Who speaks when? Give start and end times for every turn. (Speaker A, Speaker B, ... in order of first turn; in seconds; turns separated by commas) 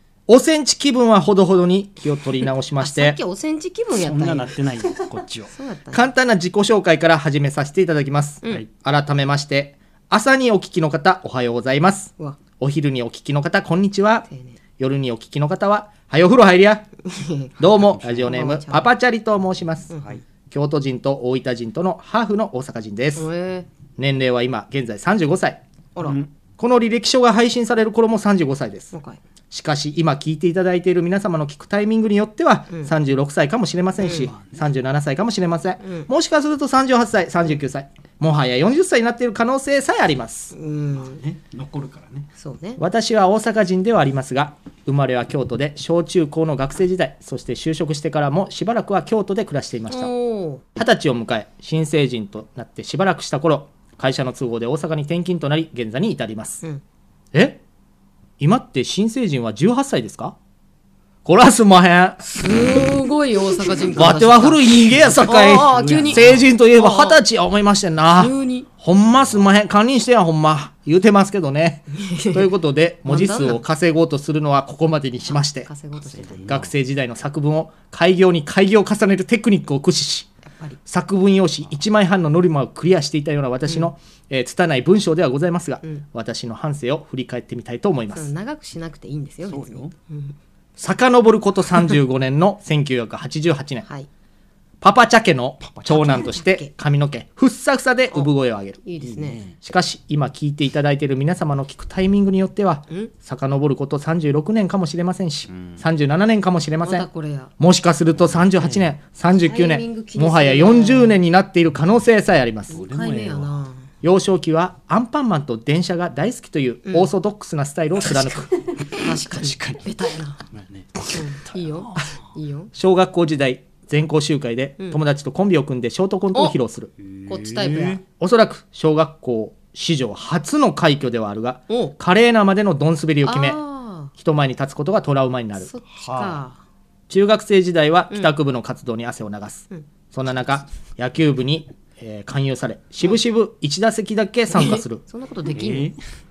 Speaker A: 0.3-3.2, Speaker B: 2.8-4.5, Speaker C: 3.9-5.5, Speaker B: 5.5-6.1, Speaker A: 5.9-14.3, Speaker B: 14.3-14.6, Speaker A: 14.8-16.9, Speaker B: 17.0-17.6, Speaker A: 17.6-19.9, Speaker C: 17.8-18.3, Speaker B: 18.2-18.9, Speaker B: 19.9-20.2, Speaker A: 20.5-23.3, Speaker B: 23.1-23.7, Speaker A: 24.0-25.6, Speaker C: 26.0-26.3, Speaker A: 26.6-28.9, Speaker B: 28.9-29.2, Speaker A: 29.5-40.5, Speaker B: 34.0-34.3, Speaker B: 35.8-36.1, Speaker B: 40.5-41.2, Speaker C: 40.9-42.3, Speaker B: 42.4-42.8, Speaker A: 42.8-50.1, Speaker B: 49.9-50.6, Speaker A: 50.7-56.6, Speaker A: 57.3-57.6, Speaker A: 58.4-60.4, Speaker A: 61.2-62.2, Speaker B: 62.2-67.2, Speaker A: 64.0-75.7, Speaker C: 64.9-66.5, Speaker B: 68.1-68.7, Speaker B: 72.0-72.5, Speaker B: 73.1-73.6, Speaker B: 75.3-76.6, Speaker C: 76.0-76.7, Speaker A: 76.4-80.3, Speaker B: 80.5-80.8, Speaker A: 80.8-88.3, Speaker B: 83.7-83.9, Speaker B: 88.1-90.3, Speaker C: 89.5-89.9, Speaker A: 90.8-93.9, Speaker A: 94.8-98.8, Speaker C: 95.6-96.2, Speaker B: 95.9-96.7, Speaker B: 98.8-99.4, Speaker C: 99.0-99.5, Speaker A: 99.6-107.1, Speaker C: 105.5-105.8, Speaker B: 106.8-107.5, Speaker A: 107.6-112.8, Speaker C: 108.4-108.8, Speaker B: 109.3-111.2, Speaker B: 112.7-113.8, Speaker C: 112.7-113.6, Speaker A: 114.0-118.6, Speaker C: 118.8-120.0, Speaker B: 118.9-120.4, Speaker C: 120.5-122.2, Speaker B: 121.1-122.7, Speaker A: 122.7-126.9, Speaker C: 127.0-128.0, Speaker B: 127.3-128.0, Speaker A: 128.2-133.6, Speaker B: 131.7-131.9, Speaker B: 133.2-134.1, Speaker A: 134.1-135.7, Speaker B: 135.6-136.6, Speaker C: 136.0-136.4, Speaker A: 137.1-145.0, Speaker B: 144.5-145.9, Speaker C: 145.5-145.9